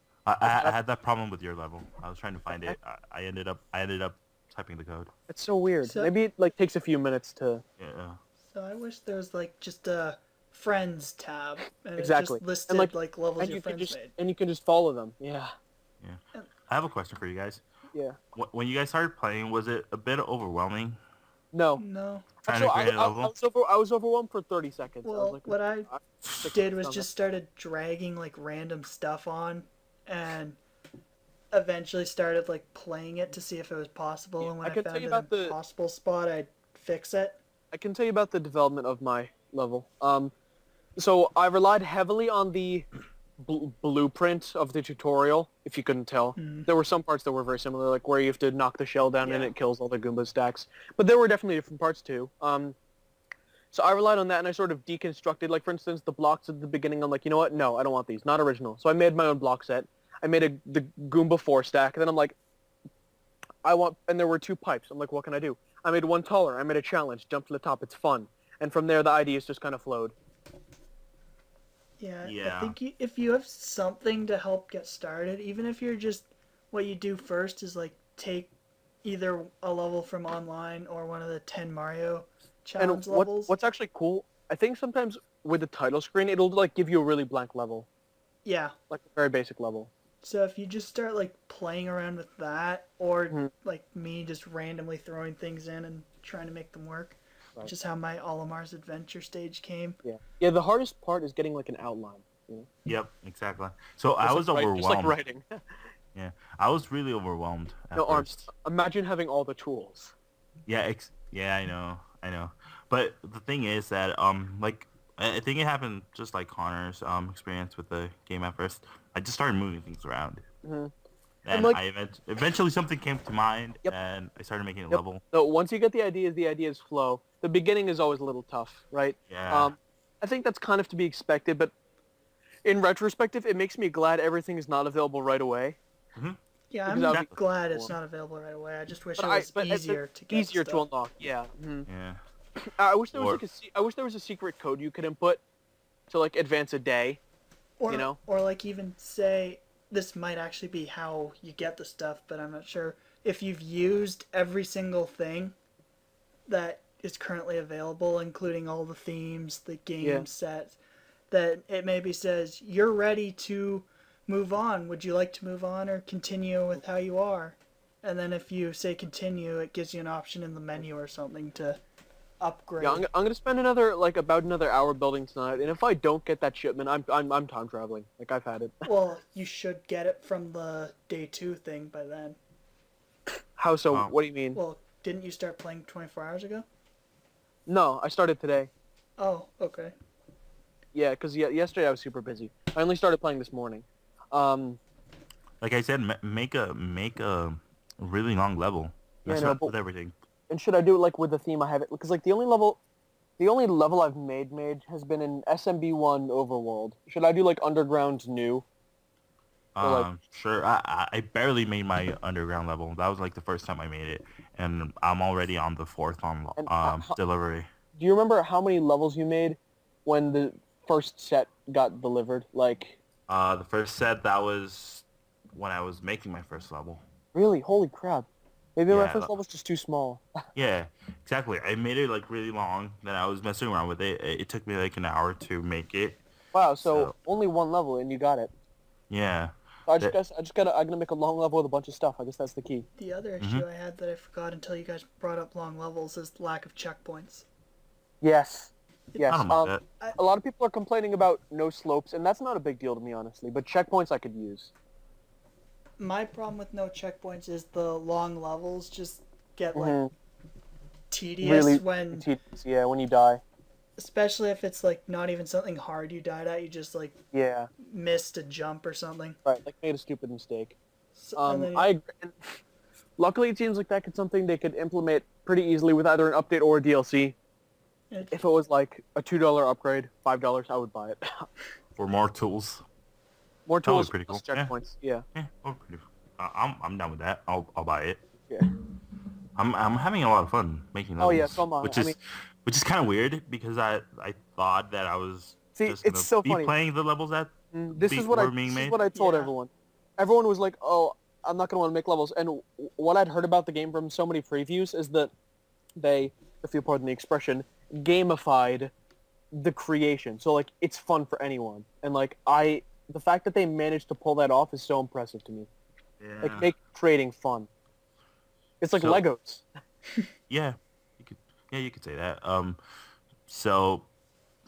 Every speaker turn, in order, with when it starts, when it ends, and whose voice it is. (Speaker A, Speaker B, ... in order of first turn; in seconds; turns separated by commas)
Speaker A: 0.3-5.1, Speaker B: 0.5-0.8, Speaker B: 2.5-2.8, Speaker B: 5.3-7.6, Speaker C: 5.8-6.1, Speaker A: 7.8-8.2, Speaker C: 8.4-14.1, Speaker B: 12.0-15.5, Speaker A: 16.0-17.6, Speaker B: 17.9-18.2, Speaker A: 18.4-21.0, Speaker B: 21.5-21.8, Speaker C: 21.8-22.3, Speaker B: 22.4-27.1, Speaker A: 22.5-23.3, Speaker C: 25.0-25.9, Speaker C: 26.5-30.6, Speaker C: 31.5-37.4, Speaker B: 34.4-35.6, Speaker B: 37.7-40.3, Speaker B: 41.0-42.9, Speaker B: 43.4-52.8, Speaker C: 46.4-46.7, Speaker C: 49.2-49.5, Speaker B: 53.7-62.4, Speaker B: 63.6-70.2, Speaker C: 72.0-78.5, Speaker A: 72.2-72.8, Speaker C: 79.0-83.5, Speaker B: 82.8-87.9, Speaker C: 88.5-88.8, Speaker B: 88.9-89.9, Speaker C: 90.2-100.0, Speaker B: 100.0-102.7, Speaker A: 102.9-105.2, Speaker B: 104.2-105.9, Speaker A: 106.2-108.5, Speaker B: 108.0-110.1, Speaker A: 110.7-120.4, Speaker B: 120.6-120.9, Speaker A: 121.5-125.2, Speaker B: 121.5-121.8, Speaker B: 124.9-131.7, Speaker A: 129.3-129.8, Speaker B: 132.6-135.8, Speaker C: 136.7-140.9, Speaker B: 136.9-137.9, Speaker B: 139.2-141.9, Speaker A: 141.9-142.2, Speaker B: 142.6-145.4, Speaker A: 143.1-143.4, Speaker B: 146.1-147.2, Speaker C: 147.8-155.6, Speaker B: 147.9-148.2, Speaker C: 156.5-160.8, Speaker C: 161.3-171.8, Speaker C: 172.4-173.1, Speaker B: 172.8-178.9, Speaker C: 178.9-182.4, Speaker B: 183.3-184.6, Speaker C: 184.5-186.7, Speaker B: 187.7-188.7, Speaker C: 189.2-189.9, Speaker B: 190.9-194.8, Speaker A: 195.6-200.2, Speaker B: 199.3-199.7, Speaker B: 200.5-202.8, Speaker B: 203.4-208.7, Speaker A: 209.8-217.7, Speaker B: 209.8-210.1, Speaker B: 216.6-217.1, Speaker B: 218.0-223.0, Speaker A: 223.3-227.0, Speaker B: 227.3-230.3, Speaker A: 228.9-229.3, Speaker A: 230.6-236.2, Speaker B: 236.5-238.5, Speaker A: 236.8-237.1, Speaker A: 239.1-240.2, Speaker B: 239.9-242.9, Speaker C: 243.0-247.5, Speaker A: 243.4-243.7, Speaker B: 248.2-254.7, Speaker C: 249.1-249.5, Speaker A: 249.3-249.8, Speaker C: 256.0-260.0, Speaker B: 259.8-260.1, Speaker C: 261.1-262.3, Speaker B: 261.4-263.4, Speaker C: 264.0-267.2, Speaker B: 267.3-267.7, Speaker C: 267.8-269.4, Speaker B: 269.4-270.8, Speaker C: 271.2-271.9, Speaker B: 271.4-272.6, Speaker B: 273.2-277.4, Speaker C: 278.1-278.4, Speaker B: 278.3-281.5, Speaker A: 282.0-282.8, Speaker B: 283.7-285.2, Speaker A: 283.8-284.7, Speaker A: 285.4-288.2, Speaker A: 289.6-299.0, Speaker B: 291.2-292.2, Speaker B: 295.8-296.7, Speaker B: 297.7-305.3, Speaker C: 299.1-299.5, Speaker B: 306.0-308.9, Speaker B: 309.5-315.7, Speaker A: 316.2-316.7, Speaker B: 316.4-317.7, Speaker B: 318.8-319.7, Speaker A: 318.9-319.2, Speaker A: 320.5-322.8, Speaker A: 323.5-324.1